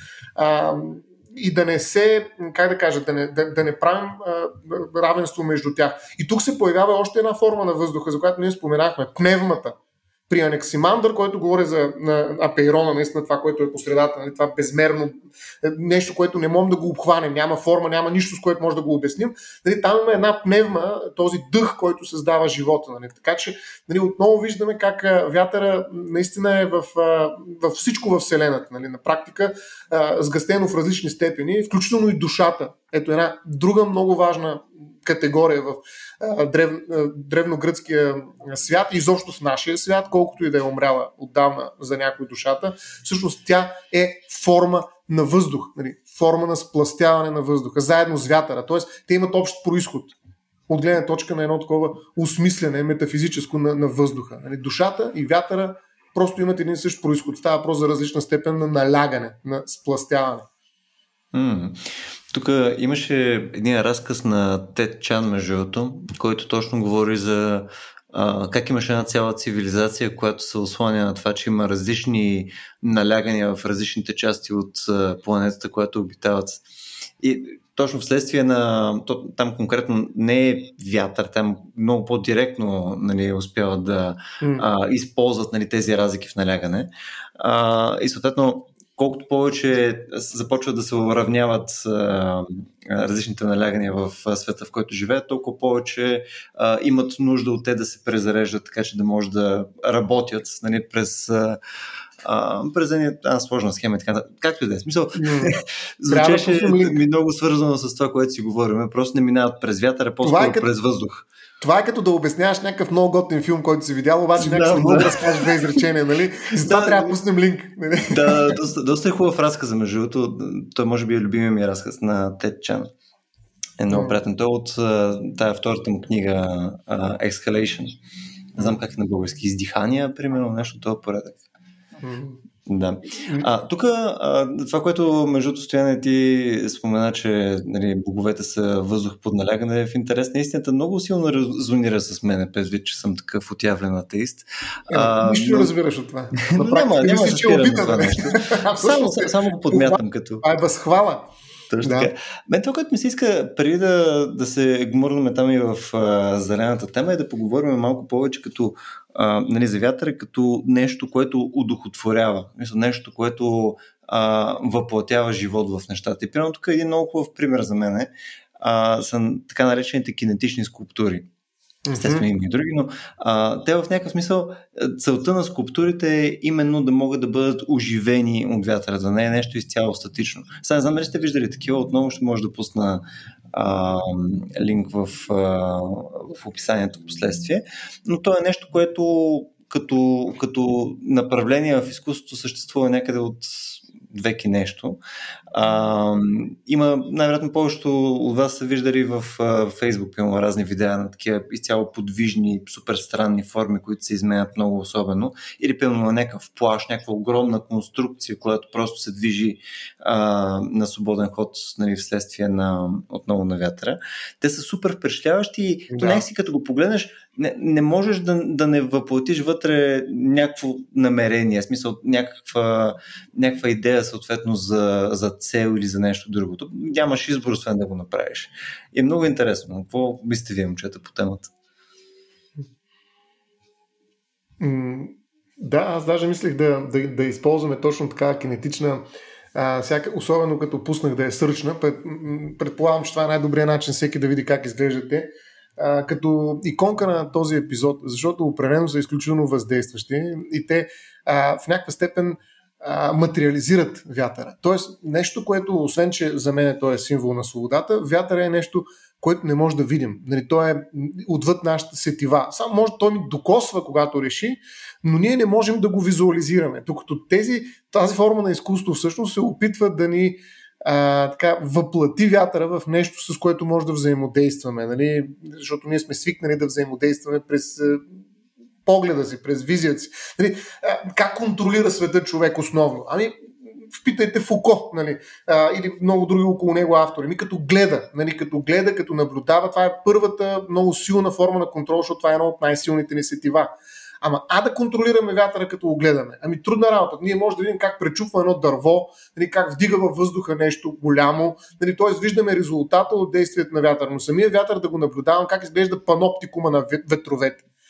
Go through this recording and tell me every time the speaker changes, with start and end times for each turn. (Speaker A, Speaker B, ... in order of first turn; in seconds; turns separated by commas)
Speaker A: 0.4-9.8, Speaker A: 10.3-50.1, Speaker A: 50.7-60.5, Speaker B: 61.3-76.6, Speaker B: 77.2-101.6, Speaker A: 84.4-84.7, Speaker B: 102.2-111.3, Speaker A: 105.2-107.0, Speaker A: 110.2-110.7, Speaker A: 111.6-118.6, Speaker B: 114.3-115.8, Speaker B: 116.6-117.2, Speaker B: 118.1-122.9, Speaker B: 123.8-128.0, Speaker A: 123.9-124.2, Speaker B: 128.6-131.4, Speaker A: 132.0-132.4, Speaker B: 132.7-145.7, Speaker A: 133.2-133.5, Speaker A: 144.9-151.3, Speaker B: 146.4-150.4, Speaker B: 151.7-171.3, Speaker A: 151.8-152.1, Speaker A: 171.9-172.3, Speaker B: 172.0-195.0, Speaker B: 195.5-231.5, Speaker A: 215.9-216.2, Speaker A: 234.6-278.2, Speaker A: 278.9-283.4, Speaker A: 283.9-293.7, Speaker A: 294.2-307.6